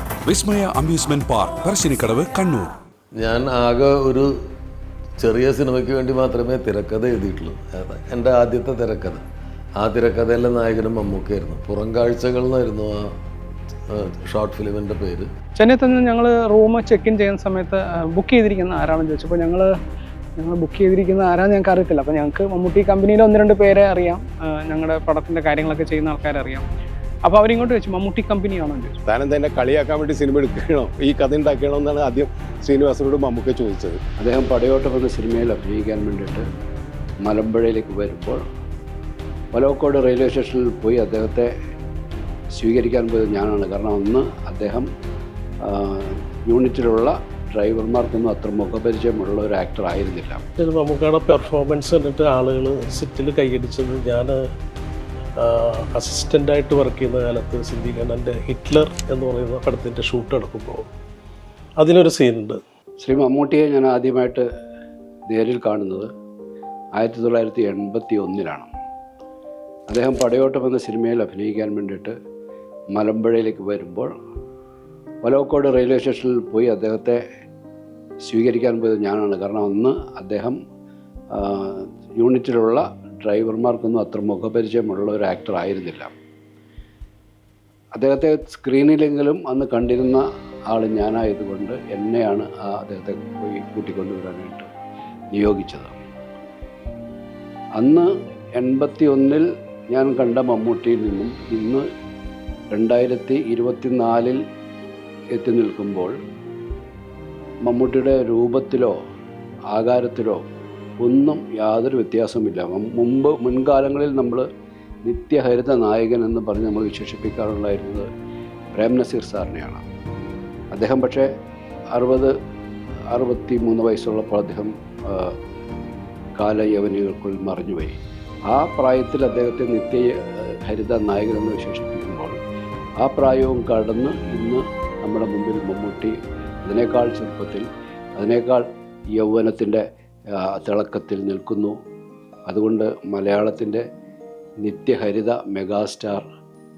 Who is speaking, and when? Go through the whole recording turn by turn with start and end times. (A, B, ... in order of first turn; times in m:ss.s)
0:00.2-0:02.7 A
0:03.2-0:04.3 B
0:05.2-0:09.2 B
0:09.8-0:13.0 B
0:13.9-0:15.3 B
0:15.6-0:19.7 C
0:20.4-0:26.6 C
0:27.3-0:28.9 C
0:29.1-0:34.0 D
0:34.2-0:36.4 E
0:37.2-0:38.4 E
0:39.5-0:41.5 E
0:42.6-0:44.9 E
0:45.6-0:50.4 E
0:50.6-0:54.4 F
0:55.4-1:00.9 F
1:01.8-1:02.6 F
1:03.0-1:04.4 E
1:05.3-1:06.1 E
1:07.0-1:08.7 E
1:09.9-1:12.1 E
1:13.0-1:14.1 E
1:15.2-1:17.2 E
1:18.3-1:20.6 E
1:21.4-1:26.1 E
1:28.0-1:34.7 E
1:35.3-1:35.9 E
1:37.8-1:41.8 E
1:42.7-1:44.4 E
1:45.4-1:46.1 E
1:47.6-1:48.9 E
1:49.7-1:50.4 E
1:51.0-1:54.4 E
1:55.1-1:58.1 E
1:58.7-1:59.8 E
2:00.7-2:01.3 E
2:02.0-2:02.3 E
2:03.1-2:05.3 E
2:06.4-2:07.9 E
2:08.5-2:10.1 E
2:10.6-2:12.3 E
2:13.0-2:17.7 E
2:18.2-2:18.6 E
2:19.2-2:19.8 E
2:20.4-2:21.7 E
2:22.5-2:23.8 E
2:24.6-2:26.2 E